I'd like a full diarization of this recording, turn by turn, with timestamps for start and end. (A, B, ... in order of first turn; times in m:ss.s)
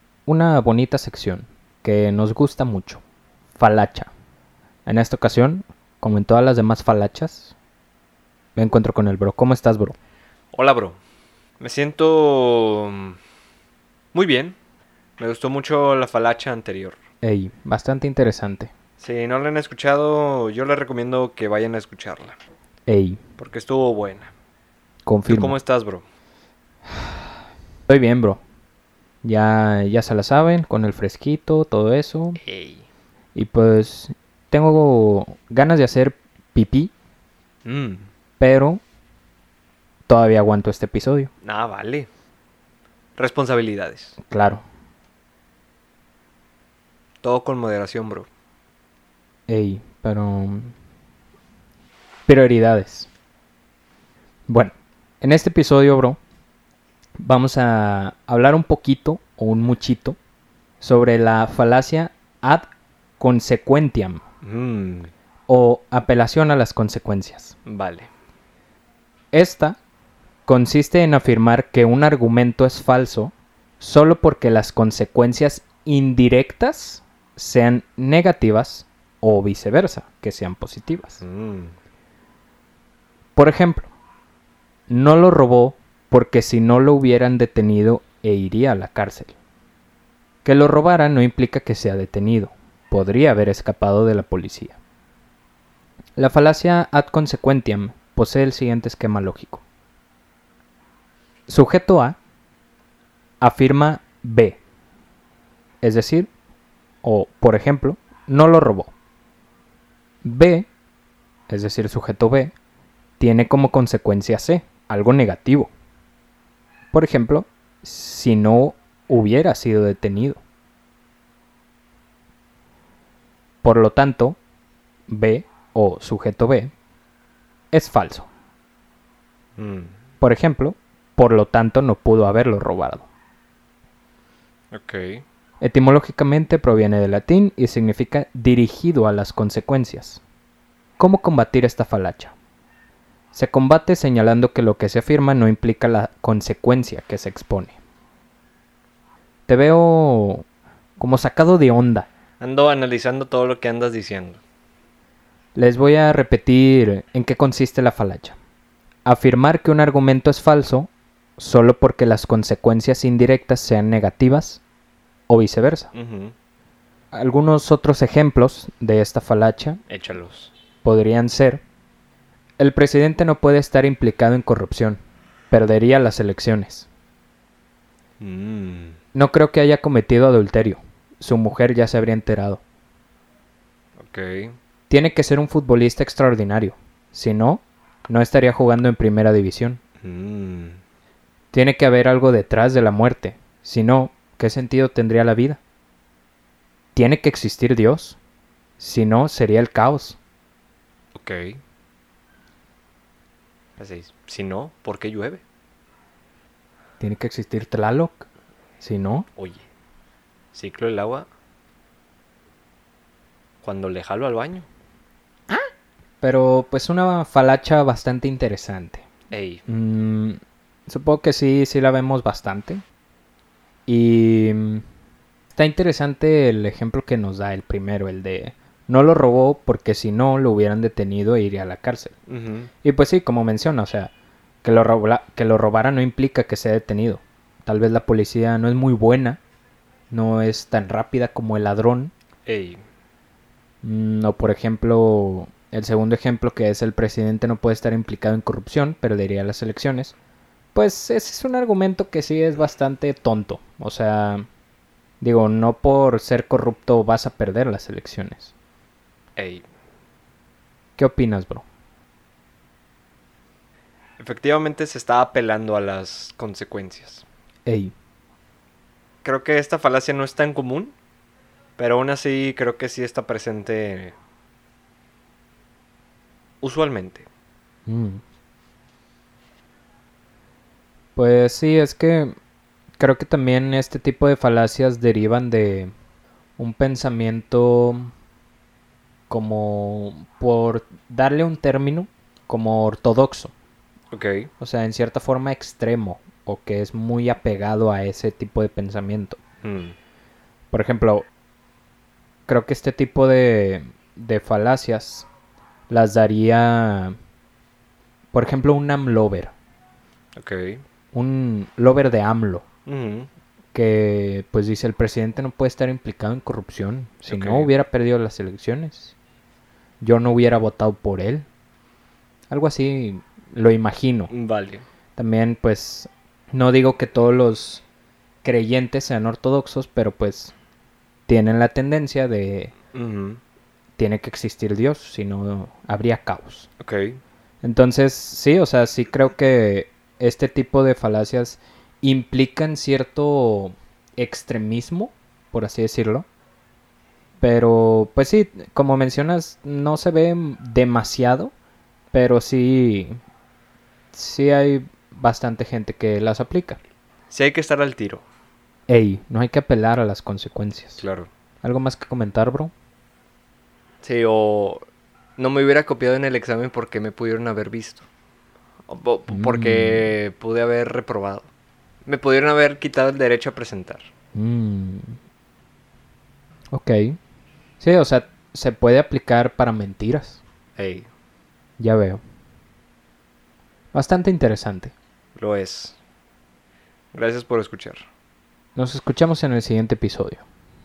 0:00.3-0:03.0 A
0:03.6-0:04.1 A
0:04.9-0:07.5 A
0:08.6-0:10.0 A
0:10.5-0:11.0 B
0:11.6-0:13.2 B
0:14.1-0:14.6 B
0:15.2-0:17.0 B
0:17.2-0:18.7 A
0:19.0-0:22.4 B
0:22.9-0:23.2 A
0:23.4-0:24.3 B
0:25.1-0:25.6 A
0:25.3-0:26.0 B
0:27.9-0:28.4 A
0:29.2-0:32.4 A
0:32.4-0:32.8 B
0:33.4-0:36.9 A
0:37.6-0:38.1 B
0:38.4-0:38.8 A
0:40.1-0:41.3 A
0:41.4-0:42.1 B
0:43.2-0:44.2 B
0:44.2-0:44.6 A
0:47.2-0:48.3 B
0:49.5-0:50.8 A
0:52.3-0:53.1 A
0:54.5-0:56.2 A
0:57.2-1:00.2 A
1:00.8-1:02.7 A
1:03.2-1:04.2 A
1:04.4-1:05.1 B
1:05.5-1:07.6 A
1:07.7-1:08.1 B
1:09.3-1:09.8 A
1:10.5-1:21.2 A
1:21.2-1:21.8 B
1:23.4-1:23.9 A
1:24.9-1:29.3 A
1:30.4-1:34.8 A
1:36.2-1:39.6 A
1:41.5-1:42.2 A
1:43.4-1:44.6 A
1:45.8-1:46.3 A
1:47.0-1:48.9 A
1:50.2-1:50.7 A
1:51.5-1:52.5 A
1:53.2-1:55.7 A
1:56.9-2:00.4 A
2:03.6-2:04.4 A
2:05.1-2:06.7 A
2:07.7-2:08.3 A
2:09.6-2:09.9 B
2:10.2-2:13.1 A
2:14.7-2:15.2 B
2:15.6-2:20.2 A
2:21.0-2:22.3 A
2:23.3-2:27.8 A
2:29.5-2:30.4 A
2:31.0-2:32.1 A
2:32.4-2:34.4 B
2:35.6-2:38.4 A
2:39.1-2:44.6 A
2:45.3-2:45.9 A
2:45.9-2:46.4 B
2:47.1-2:49.8 A
2:49.9-2:50.5 B
2:50.8-2:51.6 A
2:52.6-2:55.0 A
2:55.5-2:56.9 A
2:58.2-2:59.0 B
2:59.1-3:02.6 A
3:04.0-3:04.6 B
3:04.9-3:09.8 A
3:10.0-3:10.8 B
3:11.5-3:15.6 A
3:17.0-3:18.2 A
3:18.8-3:20.2 A
3:21.2-3:21.6 B
3:23.8-3:25.4 B
3:27.0-3:28.3 A
3:28.8-3:29.3 A
3:29.4-3:29.6 B
3:30.5-3:31.3 B
3:33.6-3:34.7 B
3:36.2-3:39.0 A
3:39.3-3:39.6 B
3:39.7-3:42.8 A
3:43.9-3:44.8 A
3:45.5-3:52.2 A
3:52.3-3:52.7 B
3:52.8-3:54.1 A
3:54.6-3:59.4 A
4:00.1-4:02.1 A
4:02.5-4:02.8 B
4:03.8-4:10.2 A
4:10.7-4:14.5 A
4:15.2-4:18.5 A
4:19.4-4:19.7 B
4:21.0-4:21.6 A
4:24.2-4:27.2 B
4:27.7-4:27.9 A
4:29.2-4:31.0 B
4:31.8-4:34.2 B
4:36.6-4:37.3 B
4:37.9-4:38.2 A
4:41.2-4:42.4 A
4:43.0-4:45.9 A
4:46.6-4:48.1 A
4:49.3-4:53.5 A
4:54.1-4:54.5 B
4:54.6-4:59.4 A
4:59.6-5:00.0 B
5:00.7-5:01.3 A
5:02.5-5:05.3 A
5:05.9-5:07.2 A
5:08.3-5:09.5 A
5:10.4-5:10.8 B
5:11.1-5:12.7 A
5:12.9-5:13.3 B
5:13.7-5:19.2 A
5:17.3-5:17.7 B
5:20.0-5:21.5 A
5:22.5-5:24.3 A
5:24.3-5:24.9 B
5:25.2-5:27.8 A
5:28.4-5:30.5 A
5:31.3-5:32.8 A
5:32.9-5:33.4 B
5:34.0-5:36.7 A
5:36.8-5:37.2 B
5:37.6-5:46.3 A
5:47.4-5:51.5 A
5:52.1-5:53.2 A
5:54.1-5:56.8 A
5:57.3-5:58.2 B
5:58.9-6:01.0 A
6:01.0-6:01.3 B
6:01.6-6:02.7 A
6:04.0-6:04.8 B
6:05.4-6:08.0 B
6:08.9-6:11.5 B
6:09.3-6:10.1 A
6:12.1-6:14.1 B
6:14.4-6:15.2 A
6:16.7-6:17.2 A
6:17.8-6:20.4 A
6:20.8-6:21.1 B
6:21.8-6:22.2 A
6:23.9-6:24.9 A
6:25.4-6:26.0 B
6:27.1-6:28.0 B
6:28.8-6:30.4 A